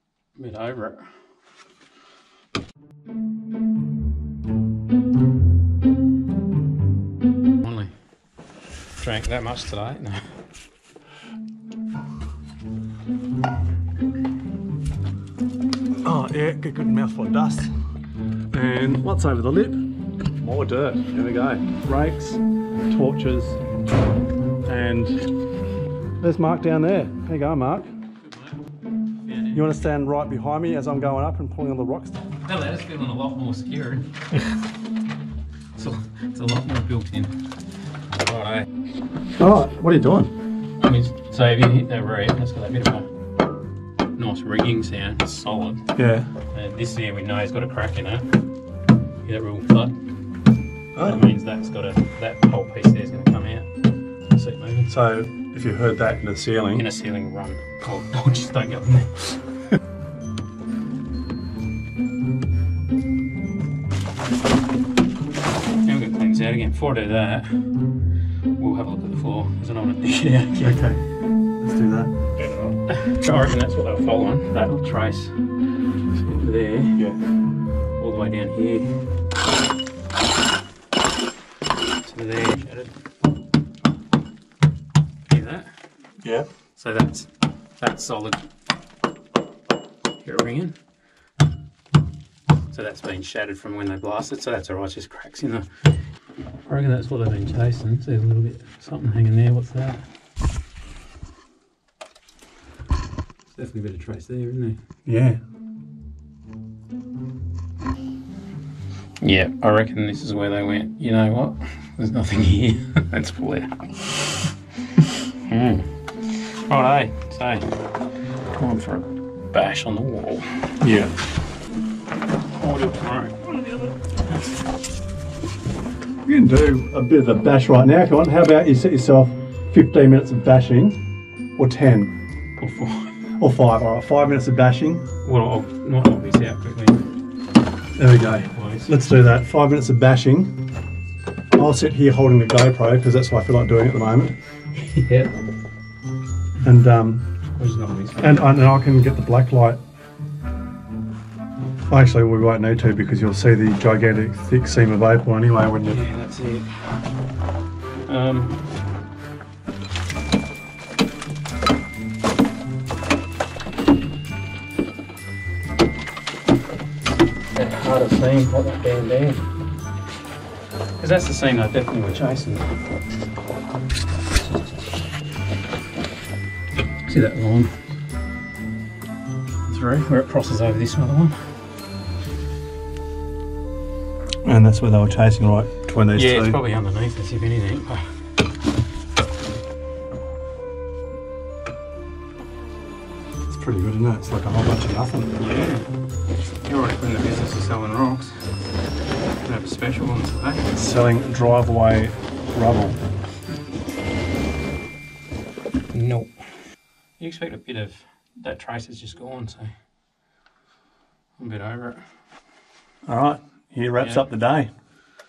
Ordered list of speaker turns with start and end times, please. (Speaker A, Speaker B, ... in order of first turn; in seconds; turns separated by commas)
Speaker A: 0.4-1.1, Speaker A: 7.6-7.9, Speaker A: 9.0-10.4, Speaker B: 16.0-17.7, Speaker B: 18.5-23.6, Speaker B: 24.6-25.3, Speaker B: 26.2-27.9, Speaker A: 28.2-28.6, Speaker A: 29.2-29.8, Speaker B: 29.5-32.3, Speaker A: 32.4-34.1, Speaker A: 35.8-37.4, Speaker A: 38.2-38.7, Speaker B: 39.4-40.3, Speaker A: 40.8-43.1, Speaker A: 44.2-45.8, Speaker B: 46.0-46.3, Speaker A: 46.5-48.3, Speaker A: 49.2-50.0, Speaker B: 51.0-51.3, Speaker A: 51.0-53.7, Speaker A: 54.3-54.9, Speaker B: 54.9-56.9, Speaker A: 56.7-59.6, Speaker A: 65.8-67.7, Speaker A: 68.6-70.8, Speaker B: 70.6-71.0, Speaker B: 71.6-72.3, Speaker A: 72.6-75.4, Speaker A: 76.2-77.1, Speaker A: 78.0-79.0, Speaker A: 82.0-82.9, Speaker A: 85.3-85.7, Speaker B: 86.2-86.5, Speaker A: 86.8-88.4, Speaker A: 90.2-90.7, Speaker A: 92.7-95.7, Speaker A: 96.7-100.0, Speaker A: 103.5-104.8, Speaker B: 105.1-105.4, Speaker A: 109.2-117.7, Speaker A: 118.6-120.8, Speaker B: 120.8-121.1, Speaker A: 122.6-123.5, Speaker B: 126.2-131.0, Speaker B: 131.6-132.1, Speaker A: 132.6-133.2, Speaker B: 133.4-135.1, Speaker A: 135.2-137.0, Speaker B: 138.0-140.5, Speaker A: 138.5-138.9, Speaker B: 141.5-144.4, Speaker A: 144.7-145.3, Speaker B: 146.6-147.3, Speaker A: 147.6-148.3, Speaker B: 148.2-149.8, Speaker B: 151.9-156.0, Speaker A: 155.9-156.9, Speaker A: 158.1-158.7, Speaker A: 167.5-169.5, Speaker A: 171.0-172.8, Speaker A: 177.1-177.7, Speaker A: 179.7-181.4, Speaker B: 184.4-186.6, Speaker A: 186.2-188.1, Speaker B: 193.5-195.3, Speaker A: 195.4-195.9, Speaker A: 196.7-198.5, Speaker A: 199.4-200.7, Speaker B: 200.7-203.0, Speaker A: 205.9-206.4, Speaker A: 207.2-209.7, Speaker A: 211.4-212.0, Speaker B: 213.1-214.7, Speaker A: 214.0-214.3